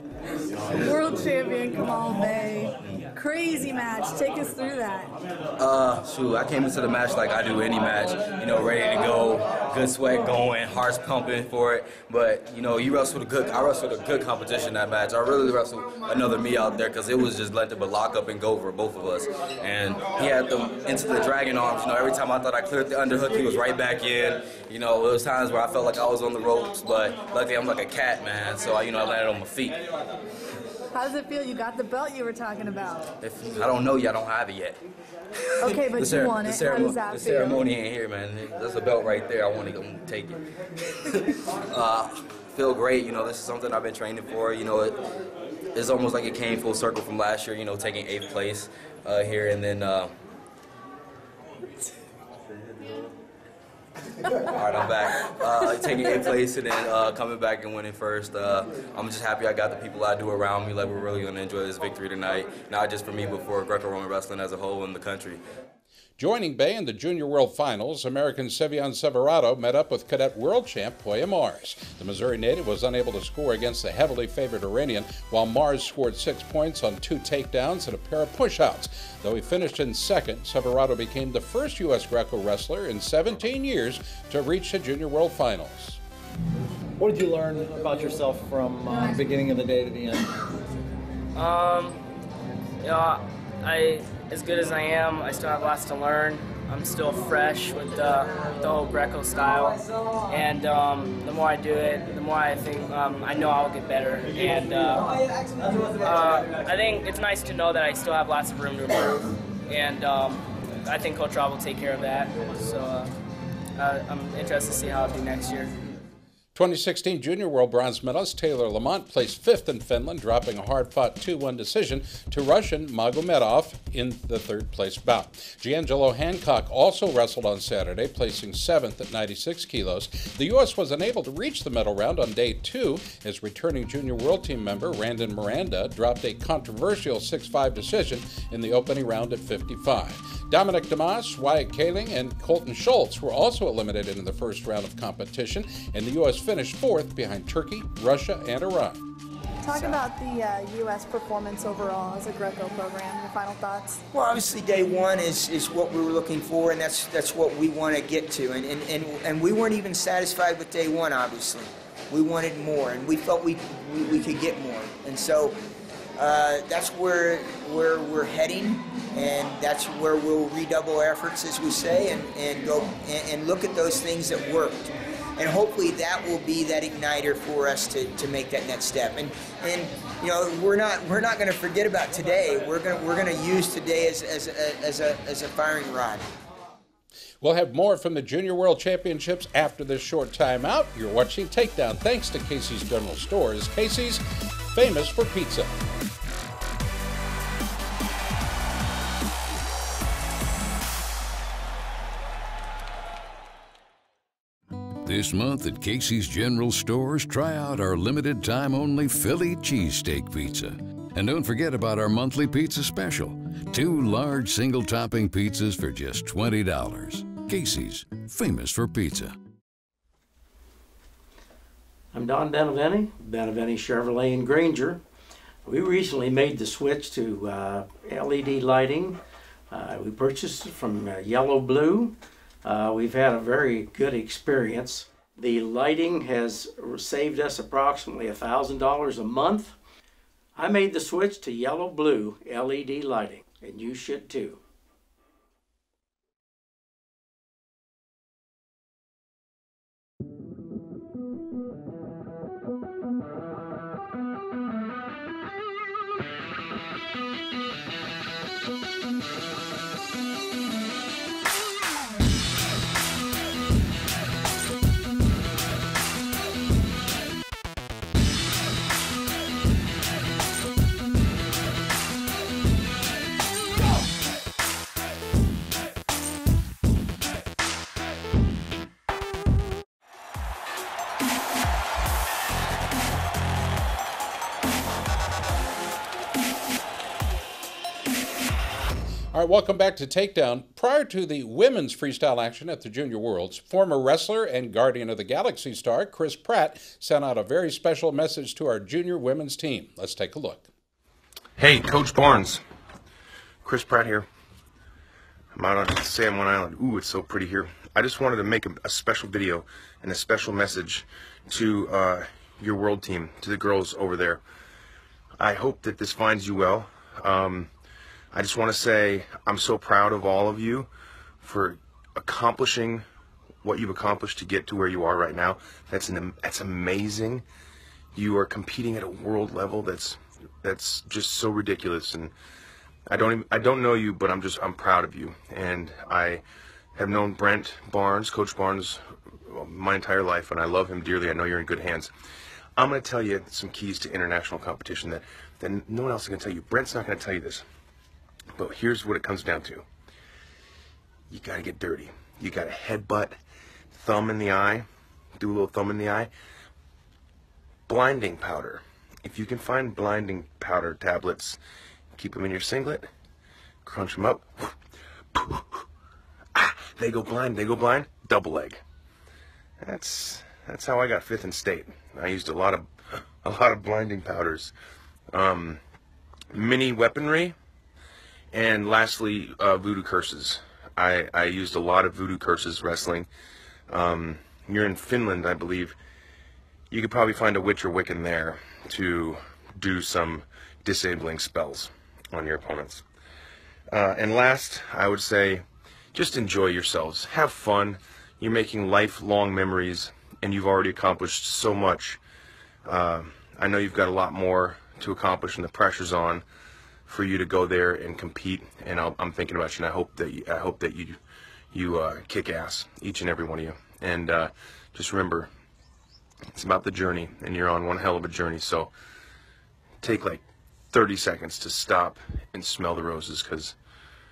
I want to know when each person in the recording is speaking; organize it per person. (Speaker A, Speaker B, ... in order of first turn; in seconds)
Speaker A: 0.8-5.1, 30.9-33.1, 35.6-37.6, 149.6-154.0
Speaker B: 5.6-29.8, 33.2-34.8, 35.6-40.4, 41.0-45.0, 45.7-50.1, 54.5-65.4
Speaker C: 66.2-86.0, 116.5-149.0, 187.4-195.8, 289.3-300.7
Speaker D: 87.0-90.3
Speaker E: 91.3-92.0, 92.8-105.1, 106.0-113.1, 113.8-115.8
Speaker F: 149.7-150.0, 154.1-165.6, 166.2-186.2
Speaker G: 205.0-219.3
Speaker H: 222.1-225.0, 225.7-229.2, 229.7-239.8, 240.6-244.6
Speaker I: 301.6-302.6, 303.6-304.2, 305.5-314.4, 315.4-317.7, 318.3-320.9, 321.4-323.0, 323.6-327.4, 328.1-332.3, 333.1-336.4, 336.9-342.1, 342.8-347.6, 348.6-349.8, 351.3-353.4, 353.9-354.9, 355.4-356.3, 357.9-361.6, 362.1-363.1, 363.8-364.7, 365.3-365.8, 366.5-368.8, 369.8-372.9, 373.4-374.7, 375.3-375.8, 376.5-377.5, 378.5-383.3, 383.9-385.9, 386.9-393.0, 393.9-402.2, 402.8-406.4, 407.1-411.2, 411.7-415.5, 416.5-418.9, 420.0-423.8